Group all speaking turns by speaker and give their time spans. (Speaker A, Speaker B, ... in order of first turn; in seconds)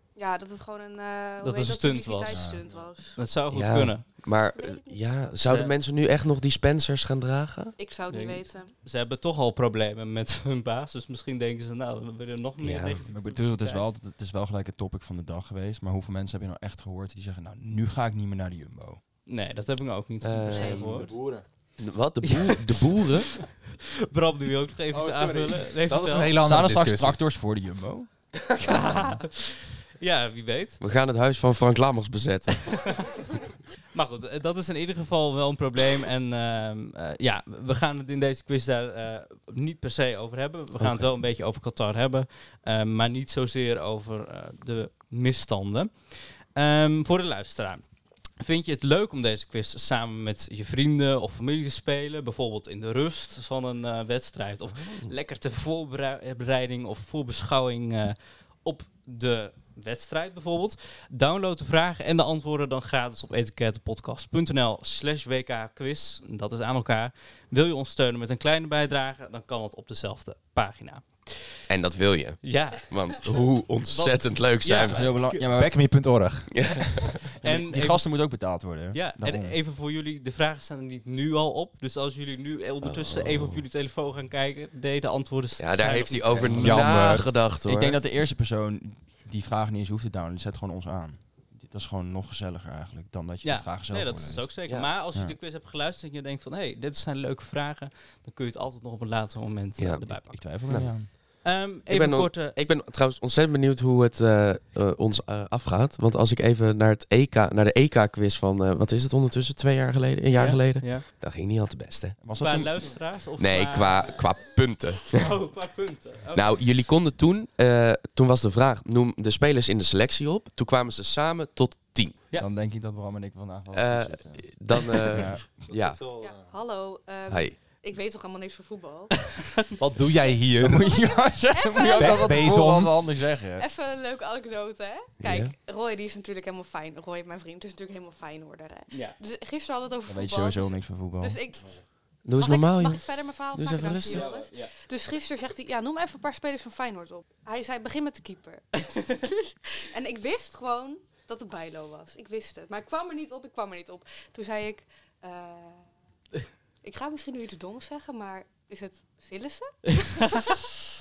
Speaker A: 0.2-3.2, 4.5-5.3, 7.8-8.7, 126.2-129.3, 130.8-132.6, 133.5-155.9, 156.8-160.7
Speaker B: 1.4-2.6, 3.2-4.1, 5.4-5.7, 8.1-13.9, 19.2-21.1, 22.2-23.2, 24.1-26.4, 28.6-30.8, 32.7-33.0, 33.9-47.8, 48.4-71.6, 72.4-75.5, 77.4-78.2, 78.9-86.6, 93.4-102.6, 110.3-111.0, 112.4-114.3, 115.1-116.6, 138.9-139.2, 144.0-144.7, 159.9-160.6
Speaker C: 2.3-2.6, 13.1-19.0, 26.4-29.0, 74.9-75.8, 77.4-79.6, 86.5-86.8, 87.6-94.5, 100.2-101.1, 112.2-113.0, 122.4-124.6, 125.1-125.5, 130.6-133.7, 140.1-141.5
Speaker D: 3.5-7.8, 12.6-13.0, 20.2-21.1, 21.8-23.4, 30.8-32.7, 40.8-41.1, 54.7-55.1, 71.7-75.2, 76.5-77.2, 82.8-83.6, 85.6-88.0, 99.8-112.2, 113.4-115.3, 116.3-122.2, 123.7-126.0, 127.3-127.6, 135.2-135.5, 142.2-144.3
Speaker E: 20.7-21.4, 24.9-27.2, 75.5-77.1, 86.3-87.3, 125.6-126.5, 129.8-130.9, 132.0-133.0